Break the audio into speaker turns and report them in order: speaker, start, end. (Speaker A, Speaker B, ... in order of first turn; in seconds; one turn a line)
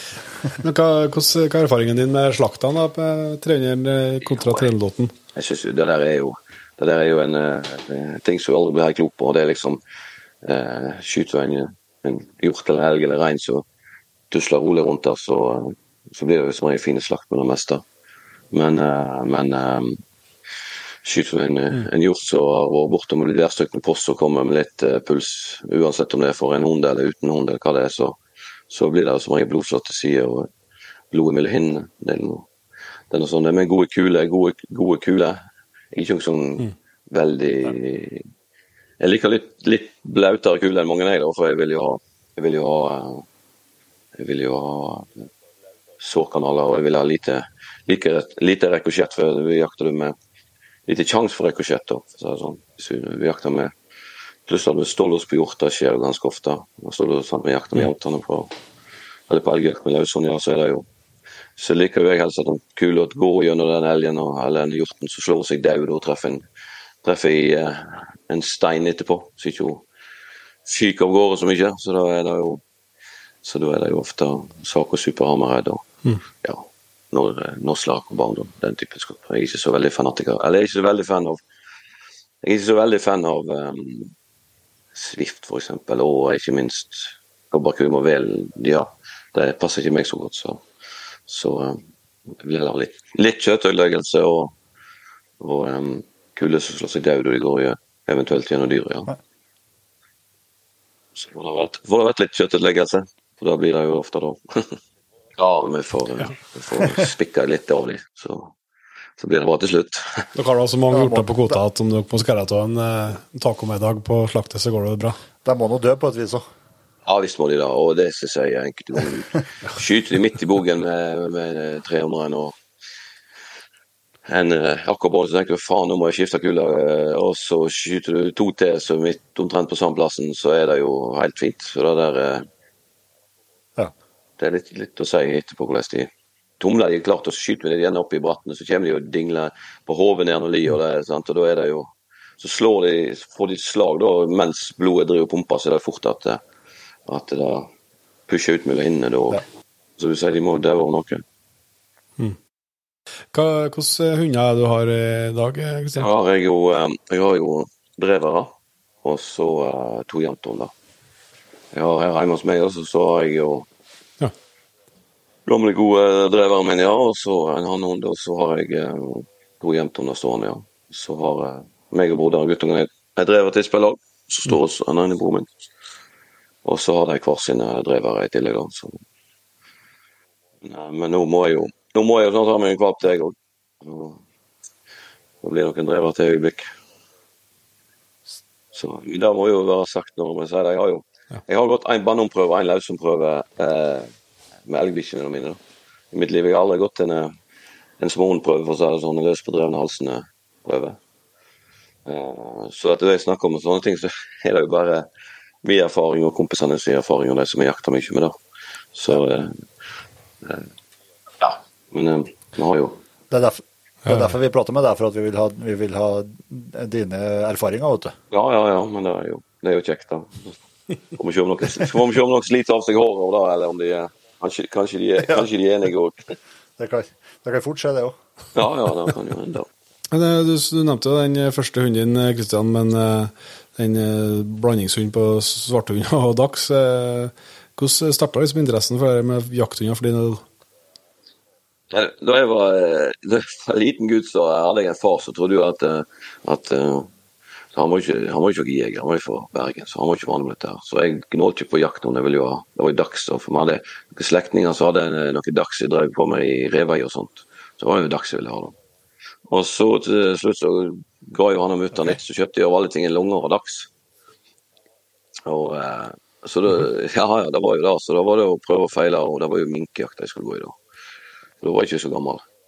Speaker A: 0.4-5.1
Speaker B: 4.3-4.7
Speaker B: 5.3-9.8
Speaker B: 10.4-13.7
Speaker B: 14.3-17.8
Speaker B: 18.5-20.0
Speaker B: 21.0-28.2
Speaker B: 28.7-30.5
Speaker B: 31.1-32.5
Speaker B: 33.1-35.4
Speaker B: 35.9-38.2
Speaker B: 39.0-43.3
Speaker B: 44.1-45.3
Speaker B: 46.0-50.2
Speaker B: 50.9-53.7
Speaker B: 54.5-58.5
Speaker B: 59.3-60.9
Speaker B: 61.6-66.5
Speaker B: 67.0-69.8
Speaker B: 70.7-72.6
Speaker B: 73.4-81.4
Speaker B: 82.4-84.1
Speaker B: 84.9-90.6
Speaker B: 91.3-94.5
Speaker B: 95.4-99.1
Speaker B: 101.2-104.8
Speaker B: 105.4-108.5
Speaker B: 109.2-110.3
Speaker A: 110.3-115.2
Speaker C: 110.9-111.6
Speaker C: 115.4-116.5
Speaker B: 117.1-122.6
Speaker B: 124.3-132.5
Speaker B: 134.4-136.1
Speaker B: 136.6-146.4
Speaker B: 147.1-147.7
Speaker B: 148.3-149.4
Speaker B: 150.0-151.2
Speaker A: 153.3-156.1
Speaker B: 156.0-160.7
Speaker B: 161.7-163.7
Speaker B: 165.5-175.5
Speaker B: 176.7-179.0
Speaker B: 180.6-184.2
Speaker B: 185.4-186.7
Speaker B: 188.7-194.1
Speaker B: 194.7-195.6
Speaker B: 196.1-197.3
Speaker B: 198.0-201.0
Speaker B: 202.1-205.1
Speaker B: 205.6-208.3
Speaker B: 208.9-209.6
Speaker B: 211.4-213.0
Speaker C: 213.3-218.2
Speaker B: 218.3-220.6
Speaker B: 221.1-226.4
Speaker C: 226.8-228.2
Speaker B: 228.6-229.7
Speaker A: 230.1-240.4
Speaker B: 241.9-247.1
Speaker B: 247.7-258.8
Speaker B: 259.5-263.9
Speaker B: 265.5-270.8
Speaker B: 271.6-272.4